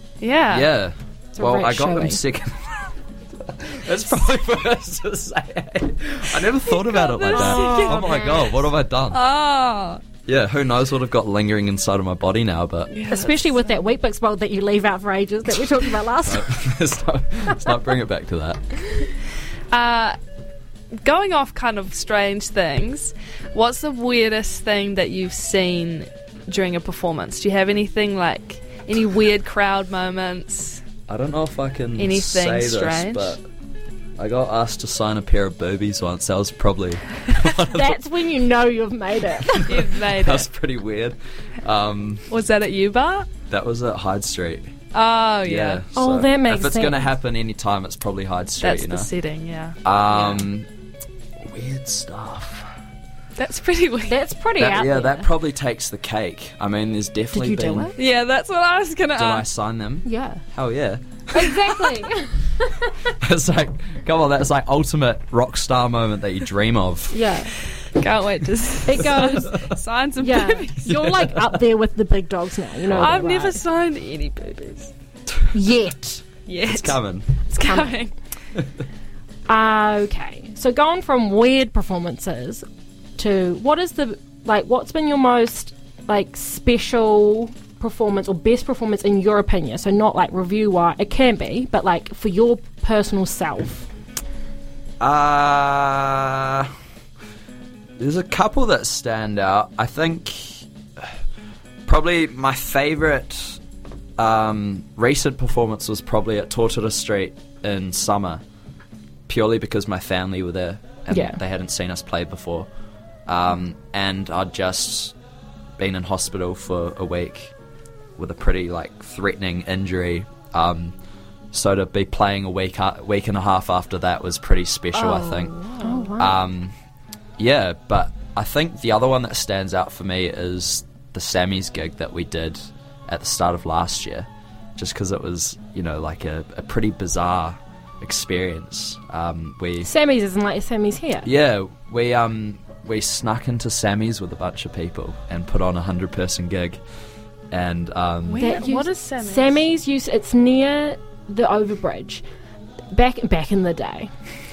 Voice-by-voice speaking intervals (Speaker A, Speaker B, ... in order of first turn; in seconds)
Speaker A: 0.2-0.7, 6.5-10.0, 12.9-13.8, 19.7-20.1, 20.9-30.8, 32.0-33.4, 39.6-40.5, 42.3-43.3, 44.9-45.8, 48.6-49.8, 53.4-54.1, 58.0-59.5, 68.0-70.9, 72.9-74.9, 76.5-78.1, 124.9-126.2, 148.2-149.6
Speaker B: 0.5-2.8, 3.4-9.2, 10.2-12.9, 16.2-18.7, 31.1-33.4, 34.2-38.0, 39.5-42.2, 43.5-44.7, 45.4-49.1, 49.8-50.7, 51.4-52.7, 54.6-57.9, 59.1-62.0, 63.2-67.2, 70.8-71.6, 72.9-73.2, 76.7-77.4, 95.0-96.7, 98.0-101.1, 101.8-103.6, 104.2-108.4, 109.3-112.7, 113.3-115.1, 115.8-117.5, 118.2-120.9, 121.5-125.6, 126.2-126.7, 127.4-139.9, 141.2-146.8, 147.5-148.6
Speaker C: 1.3-2.2, 7.3-8.1, 13.1-16.6, 37.7-39.8, 45.9-47.1, 54.0-55.3, 57.3-58.0, 60.0-60.4, 61.3-63.0, 67.1-67.5, 68.9-69.6, 70.2-73.6, 75.5-76.2, 77.6-78.0, 79.5-82.6, 83.2-93.9, 111.1-111.4, 125.8-126.3, 139.8-141.3, 148.4-152.2, 152.9-154.1